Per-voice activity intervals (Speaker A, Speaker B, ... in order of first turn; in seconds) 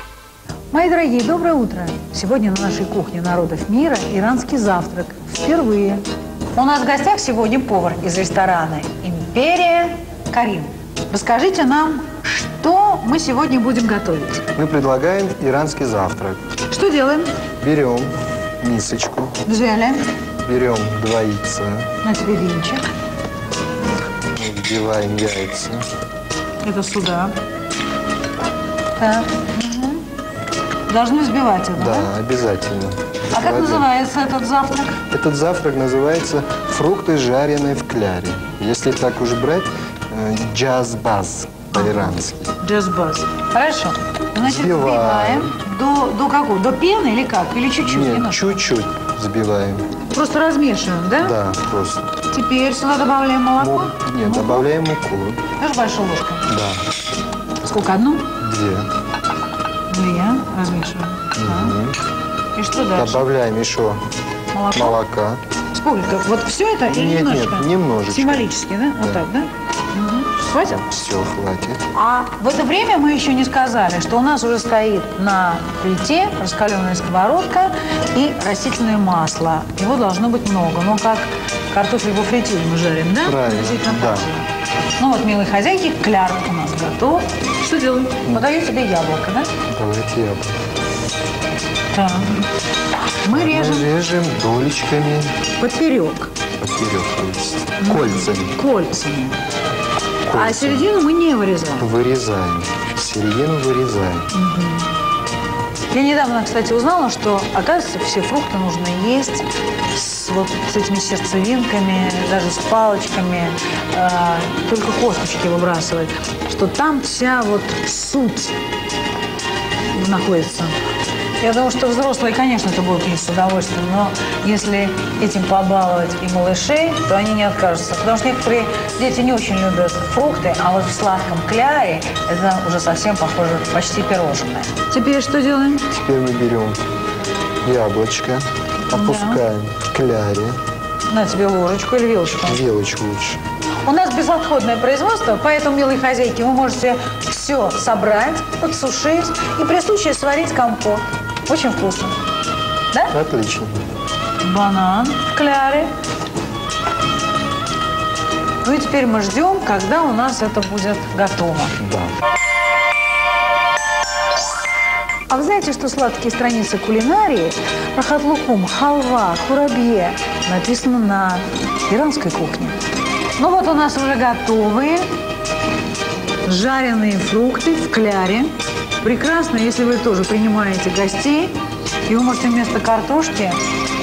Speaker A: 0.7-6.0, 6.5-14.4, 16.7-17.4, 19.4-20.1, 22.0-22.9, 26.6-27.3, 29.0-30.0, 30.9-32.1, 33.3-35.0, 41.7-48.6, 50.1-51.4, 52.3-54.7, 55.6-56.5, 57.6-58.3, 59.9-61.8, 62.5-63.3, 64.5-65.0, 65.7-70.8, 71.9-84.5, 85.0-89.5, 91.9-92.5, 93.2-93.9, 95.6-96.3, 97.8-99.4, 100.3-101.9, 104.3-104.9, 105.9-118.5, 119.9-120.8, 121.4-135.9, 138.9-139.4, 141.1-142.6, 143.8-152.2, 154.4-155.9, 158.6-161.8, 165.3-172.8, 173.4-175.1, 176.4-183.6
Speaker B: 14.5-16.4, 17.6-19.4, 20.4-21.9, 24.3-25.9, 31.8-33.9, 35.0-42.5, 44.4-45.6, 47.8-49.9, 51.2-52.1, 53.6-55.4, 56.5-56.8, 58.4-58.9, 61.4-62.0, 62.9-64.0, 64.7-65.4, 66.8-69.2, 70.6-71.8, 83.2-84.3, 89.7-90.5, 93.3-95.4, 96.6-98.5, 100.2-100.9, 101.8-104.3, 135.9-136.8, 137.6-140.6, 142.4-143.4, 153.1-153.8, 161.8-162.2